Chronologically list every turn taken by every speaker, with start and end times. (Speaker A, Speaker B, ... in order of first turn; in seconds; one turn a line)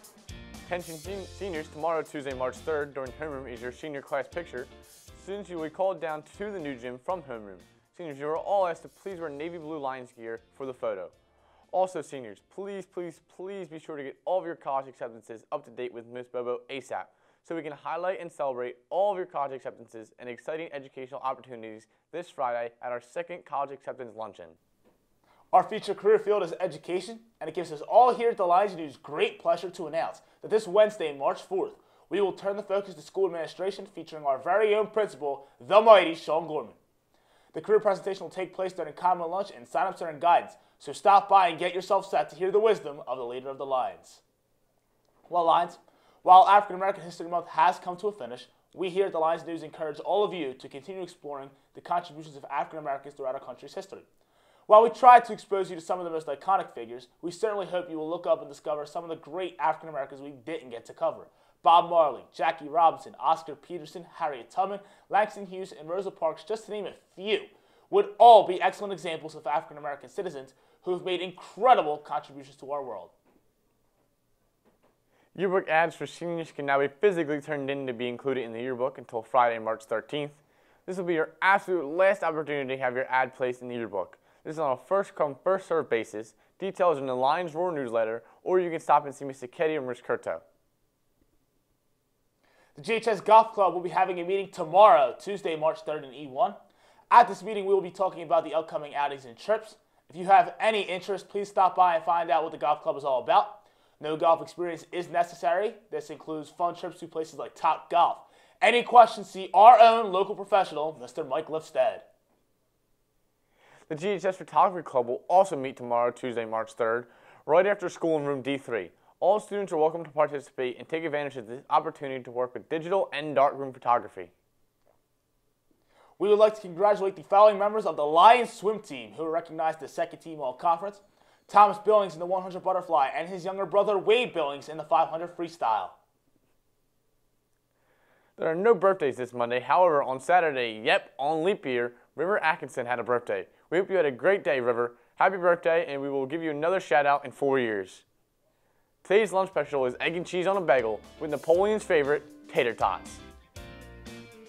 Speaker A: 0.7-11.1
Speaker A: 11.7-24.6
Speaker B: 25.5-36.8
Speaker B: 37.5-44.2
Speaker B: 45.3-54.0
Speaker B: 54.7-73.1
Speaker A: 75.3-90.4
Speaker B: 92.7-96.6
Speaker B: 97.1-112.0
Speaker A: 113.9-124.3
Speaker B: 126.2-136.0
Speaker A: 138.4-148.0
Speaker A: 149.0-153.2